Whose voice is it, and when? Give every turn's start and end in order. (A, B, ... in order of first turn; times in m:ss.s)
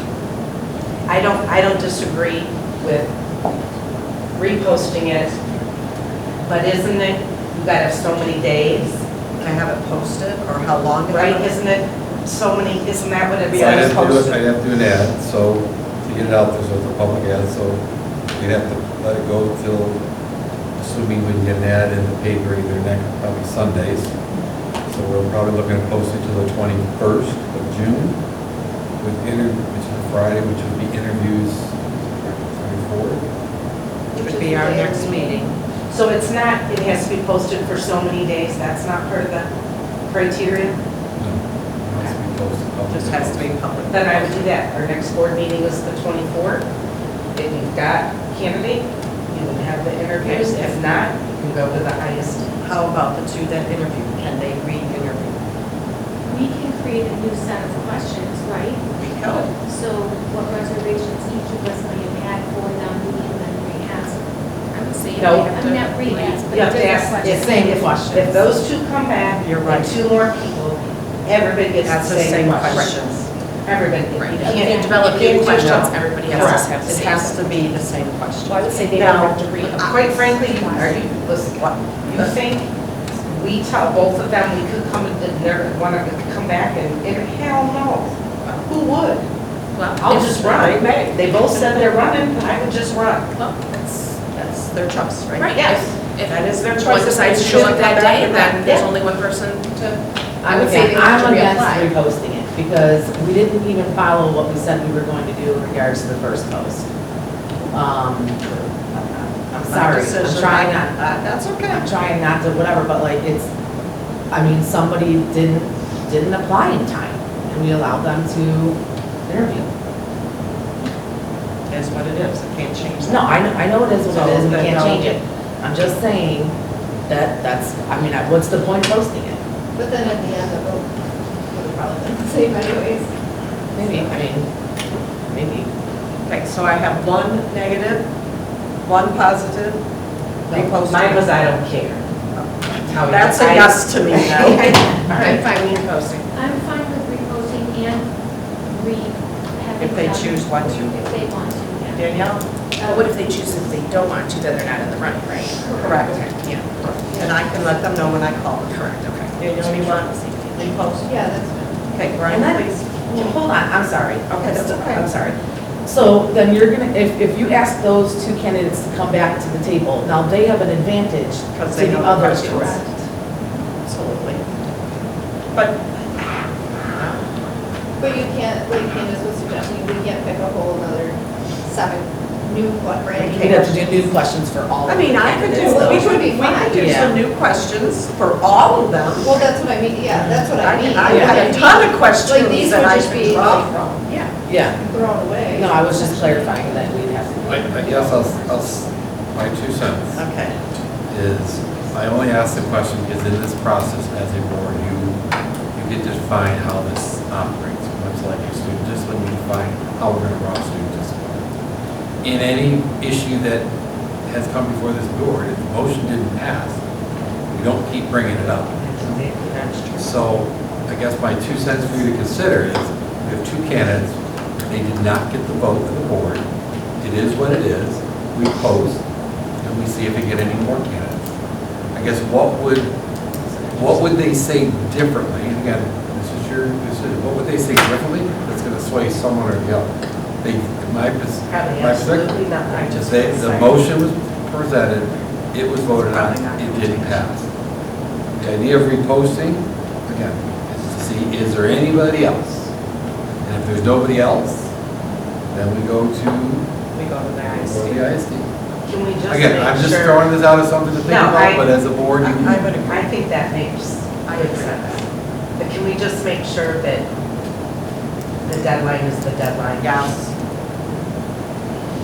0:01.1-0:03.1 A
0:04.4-0:05.4 A
0:06.4-0:09.0 A
0:09.4-0:11.5 B
0:11.1-0:14.4 A
0:13.5-0:17.8 C
0:18.4-0:20.0 C
0:20.8-0:24.1 C
0:24.9-0:28.2 C
0:29.0-0:33.2 C
0:34.1-0:35.5 B
0:34.2-0:35.4 D
0:35.9-0:39.5 A
0:40.1-0:40.8 A
0:41.2-0:43.6 C
0:42.9-0:44.5 B
0:43.9-0:44.7 A
0:44.3-0:45.4 D
0:45.5-0:46.6 A
0:47.4-0:48.8 D
0:47.5-0:48.7 A
0:49.3-0:50.6 A
0:50.2-0:51.0 B
0:50.6-0:51.6 D
0:51.6-0:52.5 A
0:52.6-0:55.4 B
0:56.3-1:04.2 E
0:59.0-0:59.5 B
1:04.7-1:07.2 F
1:05.2-1:07.8 E
1:06.5-1:12.9 A
1:07.2-1:08.5 G
1:09.3-1:10.0 B
1:11.8-1:13.3 B
1:13.6-1:16.7 A
1:14.1-1:17.4 F
1:14.5-1:15.0 E
1:15.4-1:20.1 B
1:18.5-1:20.9 F
1:20.4-1:21.6 A
1:20.7-1:22.4 B
1:22.1-1:22.7 A
1:23.3-1:28.2 A
1:28.5-1:28.8 B
1:28.8-1:29.2 A
1:29.8-1:31.1 F
1:30.0-1:33.3 A
1:30.4-1:31.7 B
1:33.3-1:34.2 F
1:34.3-1:38.8 B
1:35.3-1:41.9 F
1:40.4-1:46.8 G
1:47.7-1:48.4 G
1:49.4-1:50.9 G
1:49.6-1:51.9 B
1:51.6-1:53.5 G
1:54.3-1:59.7 G
2:01.7-2:03.5 B
2:03.0-2:06.5 G
2:04.0-2:05.1 B
2:07.1-2:09.4 G
2:09.8-2:10.9 D
2:11.5-2:13.1 D
2:13.7-2:14.5 G
2:15.3-2:15.7 G
2:16.3-2:18.0 B
2:18.8-2:19.8 B
2:20.5-2:21.3 B
2:20.5-2:22.0 A
2:22.9-2:25.8 A
2:23.0-2:25.0 B
2:25.2-2:26.2 F
2:26.3-2:28.1 E
2:28.7-2:32.3 E
2:29.8-2:31.1 B
2:31.9-2:32.4 B
2:32.8-2:37.3 F
2:35.8-2:36.3 B
2:37.1-2:41.1 B
2:38.7-2:40.0 F
2:41.0-2:41.8 D
2:41.9-2:43.4 B
2:42.3-2:42.6 A
2:43.1-2:52.9 G
2:44.3-2:45.0 B
2:51.6-2:52.8 B
2:53.8-2:54.4 B
2:55.5-2:56.3 B
2:57.0-2:57.2 B
2:58.0-3:03.7 D
3:03.1-3:03.8 B
3:03.3-3:06.2 G
3:04.8-3:09.5 B
3:05.5-3:06.9 D
3:06.7-3:07.2 G
3:09.2-3:13.9 D
3:10.1-3:11.6 G
3:10.6-3:14.3 B
3:14.4-3:14.8 G
3:14.8-3:16.1 D
3:15.5-3:18.4 G
3:16.4-3:16.7 E
3:17.4-3:20.2 C
3:17.6-3:18.6 E
3:20.1-3:20.6 B
3:21.1-3:25.2 C
3:25.7-3:31.5 C
3:32.2-3:33.7 C
3:34.3-3:36.8 C
3:37.5-3:38.8 C
3:39.1-3:40.1 B
3:40.0-3:44.2 C
3:44.7-3:46.4 C
3:47.0-3:49.0 C
3:49.6-3:51.3 C
3:51.9-3:52.9 C
3:53.7-3:59.9 C
4:00.4-4:07.4 C
4:01.5-4:03.9 A
4:06.0-4:07.3 B
4:08.4-4:12.7 C
4:13.4-4:14.7 C
4:15.5-4:16.7 C
4:16.9-4:18.0 B
4:17.4-4:18.5 C
4:18.9-4:19.8 A
4:19.3-4:22.9 C
4:19.8-4:20.2 D
4:21.3-4:21.6 D
4:22.2-4:25.0 B
4:23.9-4:24.9 A
4:25.6-4:27.0 A
4:28.4-4:29.9 A
4:29.8-4:30.3 B